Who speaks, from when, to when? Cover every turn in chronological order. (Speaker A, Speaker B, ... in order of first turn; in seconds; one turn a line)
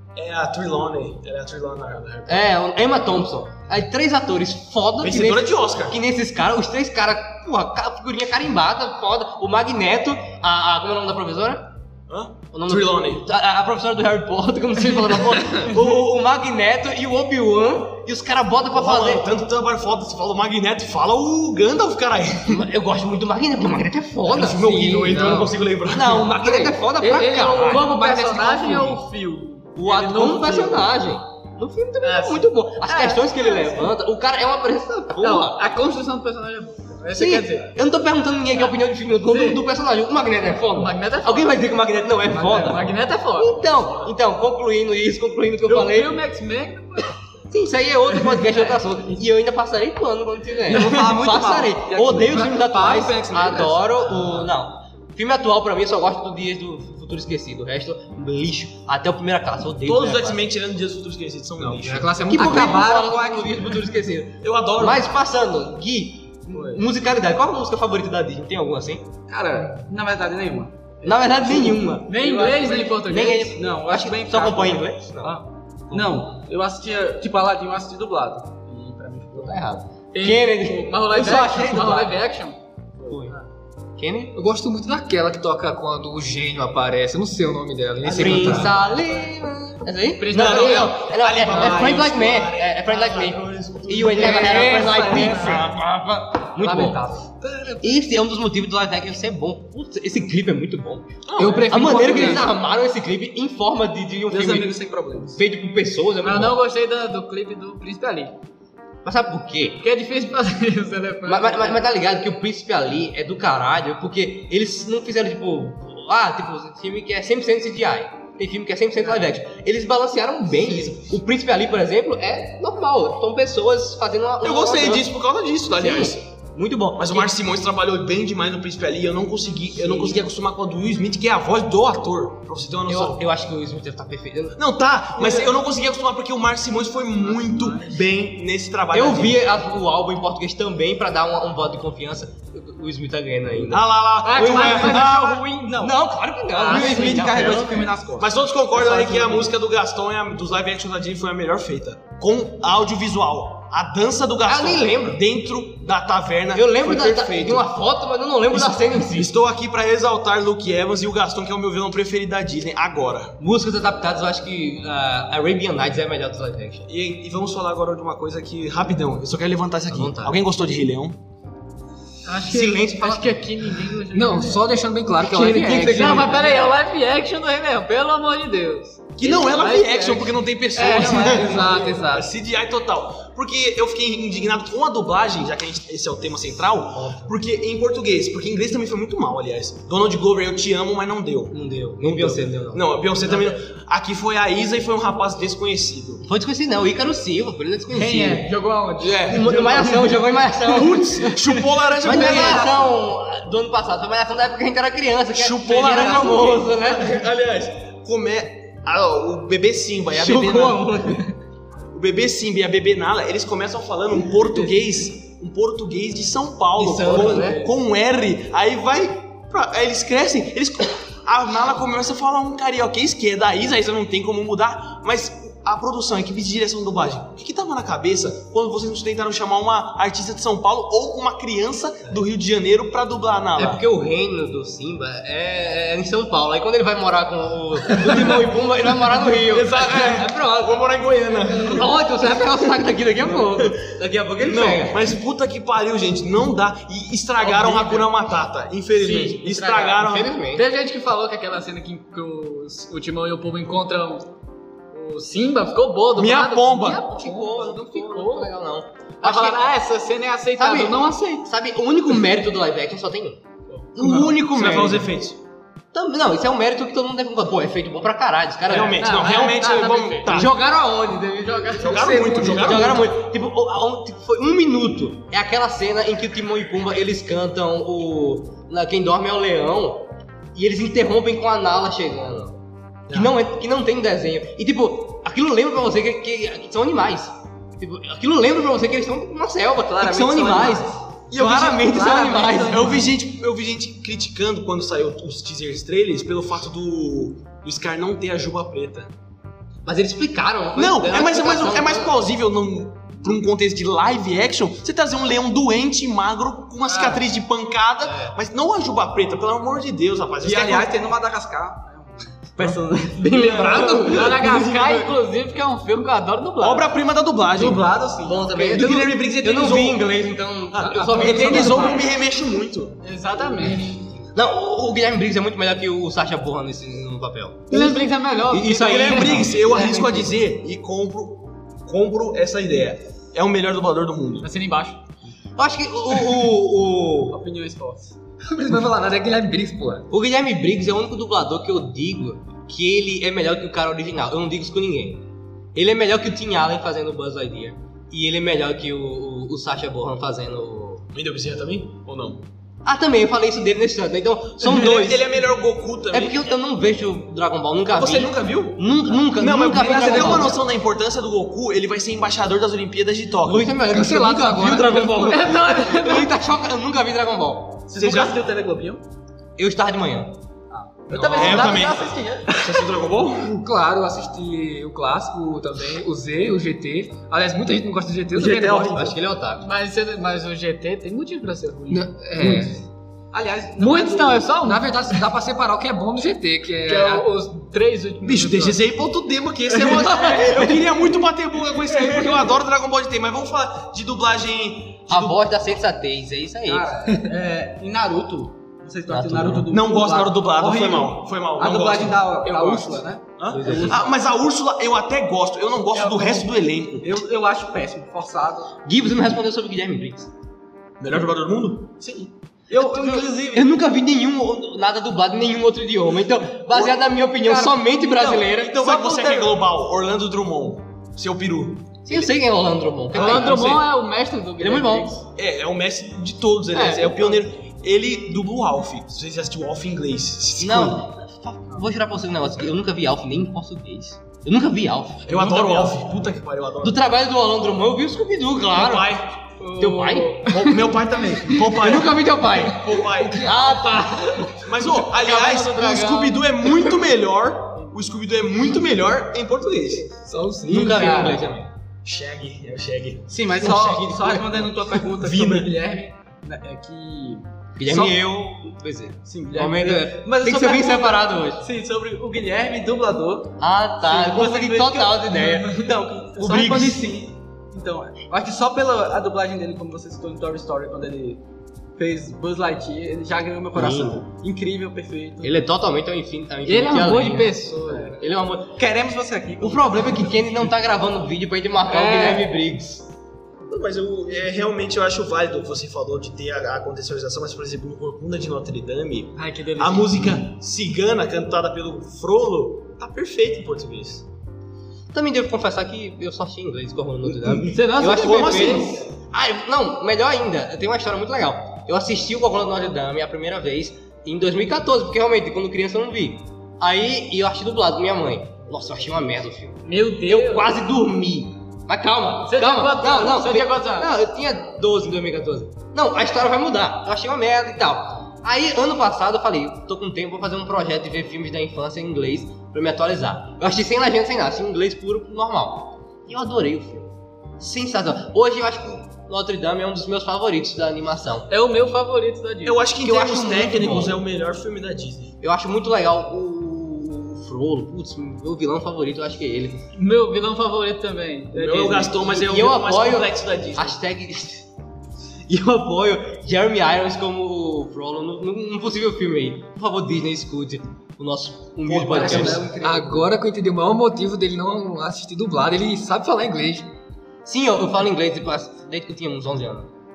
Speaker A: 0.2-2.4
Speaker B: 2.3-11.7
Speaker A: 5.0-6.0
Speaker A: 12.1-13.2
Speaker B: 12.5-19.3
Speaker A: 18.7-22.6
Speaker B: 22.5-25.4
Speaker A: 24.3-26.4
Speaker C: 24.7-25.6
Speaker B: 25.9-28.9
Speaker D: 26.9-30.9
Speaker C: 28.1-28.9
Speaker B: 29.8-35.7
Speaker D: 32.0-33.9
Speaker D: 35.2-37.7
Speaker B: 37.1-46.2
Speaker D: 39.3-39.6
Speaker D: 40.7-44.1
Speaker D: 45.7-47.2
Speaker B: 47.5-60.5
Speaker D: 48.1-48.7
Speaker E: 50.7-53.7
Speaker A: 59.8-62.2
Speaker C: 61.6-63.0
Speaker B: 62.2-69.1
Speaker E: 62.3-63.8
Speaker A: 64.4-65.1
Speaker E: 66.5-66.9
Speaker E: 69.3-79.7
Speaker B: 71.0-75.4
Speaker D: 72.1-73.5
Speaker B: 75.9-76.2
Speaker B: 79.3-81.7
Speaker D: 80.1-82.6
Speaker E: 81.1-82.2
Speaker B: 83.1-83.4
Speaker B: 84.0-84.3
Speaker C: 84.3-88.7
Speaker E: 88.0-88.7
Speaker B: 88.0-97.0
Speaker D: 90.2-91.0
Speaker A: 90.3-95.6
Speaker E: 91.5-92.0
Speaker D: 94.1-95.6
Speaker E: 94.3-95.6
Speaker E: 96.6-97.5
Speaker D: 96.7-97.0
Speaker B: 97.8-101.1
Speaker A: 101.3-101.9
Speaker D: 101.4-102.5
Speaker B: 101.7-104.7
Speaker E: 101.9-102.4
Speaker E: 104.3-105.4
Speaker B: 105.3-106.6
Speaker D: 106.2-108.3
Speaker B: 109.0-109.8
Speaker D: 109.8-111.8
Speaker B: 111.2-125.1
Speaker A: 124.4-126.2
Speaker B: 125.7-127.3
Speaker A: 127.0-133.2
Speaker B: 129.8-130.2
Speaker B: 132.9-134.6
Speaker A: 134.6-139.4
Speaker D: 135.2-135.5
Speaker B: 138.9-147.9
Speaker A: 143.7-145.4
Speaker D: 144.2-145.8
Speaker E: 145.7-145.9
Speaker E: 146.5-149.5
Speaker D: 146.7-147.3
Speaker A: 148.2-157.7
Speaker B: 154.4-155.2
Speaker B: 156.5-159.3
Speaker A: 158.5-163.4
Speaker B: 163.4-166.9
Speaker A: 166.9-171.2
Speaker B: 169.9-170.4
Speaker D: 172.3-181.9
Speaker B: 172.4-173.4
Speaker C: 174.1-176.6
Speaker B: 175.7-176.4
Speaker A: 179.2-196.2
Speaker C: 180.9-182.3
Speaker B: 186.9-187.3
Speaker B: 191.5-193.0
Speaker B: 196.2-198.5
Speaker D: 197.9-200.1
Speaker A: 199.0-200.1
Speaker B: 199.2-201.3
Speaker A: 200.7-202.9
Speaker D: 201.2-202.5
Speaker B: 202.0-207.2
Speaker A: 205.3-211.1
Speaker B: 210.2-211.2
Speaker A: 211.9-233.8
Speaker B: 216.8-217.6
Speaker E: 216.9-217.7
Speaker B: 233.6-240.8
Speaker A: 238.1-238.4
Speaker A: 239.3-241.9
Speaker B: 241.6-245.1
Speaker A: 243.3-243.7
Speaker A: 244.4-250.3
Speaker D: 247.4-248.1
Speaker D: 248.9-254.3
Speaker B: 250.0-250.7
Speaker D: 254.9-258.5
Speaker A: 256.2-257.0
Speaker B: 257.0-259.7
Speaker D: 259.2-261.4
Speaker B: 260.6-263.4
Speaker A: 263.9-265.4
Speaker D: 264.0-264.4
Speaker B: 264.5-265.1
Speaker B: 265.9-269.1
Speaker A: 268.7-270.5
Speaker D: 268.7-270.5
Speaker B: 270.3-282.6
Speaker D: 271.4-273.0
Speaker A: 271.8-273.1
Speaker B: 283.1-293.0
Speaker E: 289.9-291.0
Speaker A: 291.4-291.9
Speaker E: 291.6-292.9
Speaker A: 292.7-299.1
Speaker B: 299.9-302.1
Speaker A: 300.7-311.0
Speaker D: 306.9-307.2
Speaker B: 308.0-308.4
Speaker E: 310.4-314.3
Speaker B: 313.3-314.3
Speaker D: 313.3-316.9
Speaker A: 313.3-314.5
Speaker A: 316.6-317.9
Speaker E: 317.5-318.7
Speaker B: 318.2-322.1
Speaker A: 318.5-320.1
Speaker A: 320.7-323.0
Speaker D: 320.8-321.9
Speaker E: 321.4-322.0
Speaker D: 323.0-324.0
Speaker B: 324.3-328.0
Speaker D: 327.7-330.1
Speaker A: 328.5-334.5
Speaker B: 328.6-330.2
Speaker D: 334.4-335.0
Speaker B: 335.6-337.4
Speaker E: 337.3-338.1
Speaker C: 338.4-340.1
Speaker B: 340.1-351.1
Speaker A: 351.1-352.4
Speaker B: 352.9-355.4
Speaker A: 354.6-356.4
Speaker B: 356.1-360.6
Speaker A: 357.9-363.7
Speaker B: 363.4-367.9
Speaker C: 363.8-365.3
Speaker D: 365.3-366.3
Speaker E: 367.9-369.0
Speaker A: 368.0-368.4
Speaker B: 369.6-370.4
Speaker E: 370.7-372.9
Speaker C: 371.2-371.7
Speaker D: 371.2-372.1
Speaker A: 371.3-373.6
Speaker C: 373.6-379.1
Speaker E: 378.3-379.1
Speaker B: 378.9-379.7
Speaker D: 379.6-382.6
Speaker C: 381.9-382.8
Speaker E: 383.3-384.6
Speaker D: 383.8-385.2
Speaker C: 384.6-387.3
Speaker D: 386.9-388.8
Speaker A: 388.2-395.4
Speaker D: 389.7-390.7
Speaker B: 395.1-396.9
Speaker E: 396.7-404.1
Speaker B: 399.1-399.7
Speaker A: 399.7-402.3
Speaker D: 402.4-403.1
Speaker A: 403.4-407.2
Speaker B: 403.5-404.1
Speaker E: 405.9-406.4
Speaker E: 407.0-408.8
Speaker B: 408.9-410.3
Speaker A: 411.0-411.9
Speaker E: 412.0-413.7
Speaker B: 413.0-418.8
Speaker E: 416.7-419.6
Speaker A: 418.5-422.0
Speaker B: 422.1-423.8
Speaker D: 423.1-425.2
Speaker A: 423.1-423.8
Speaker B: 424.6-425.2
Speaker A: 425.3-431.1
Speaker D: 426.7-427.4
Speaker B: 430.6-435.4
Speaker A: 435.3-437.0
Speaker E: 435.3-436.0
Speaker B: 436.8-439.1
Speaker A: 438.7-439.4
Speaker D: 439.6-441.7
Speaker B: 439.8-440.5
Speaker A: 440.5-443.6
Speaker B: 441.6-444.6
Speaker A: 444.5-450.1
Speaker D: 445.0-446.4
Speaker C: 450.2-451.3
Speaker B: 450.7-451.7
Speaker D: 450.8-451.4
Speaker A: 452.0-455.7
Speaker E: 453.3-458.1
Speaker B: 457.8-461.6
Speaker E: 459.3-471.4
Speaker B: 463.6-465.9
Speaker A: 466.4-467.1
Speaker E: 472.0-475.6
Speaker B: 473.7-474.2
Speaker B: 475.4-478.8
Speaker D: 476.7-478.2
Speaker E: 477.8-478.2
Speaker E: 478.7-480.5
Speaker B: 479.6-483.1
Speaker D: 481.9-482.5
Speaker A: 483.6-494.2
Speaker D: 489.4-490.4
Speaker B: 495.1-531.5
Speaker A: 497.2-499.1
Speaker D: 497.6-499.0
Speaker D: 509.8-510.8
Speaker D: 512.5-514.1
Speaker D: 531.5-532.9
Speaker A: 532.6-535.3
Speaker B: 533.0-534.2
Speaker B: 535.4-539.9
Speaker D: 540.0-542.3
Speaker A: 541.5-544.0
Speaker B: 542.3-544.7
Speaker B: 545.5-552.7
Speaker E: 551.9-553.3
Speaker C: 552.6-556.9
Speaker B: 557.5-559.9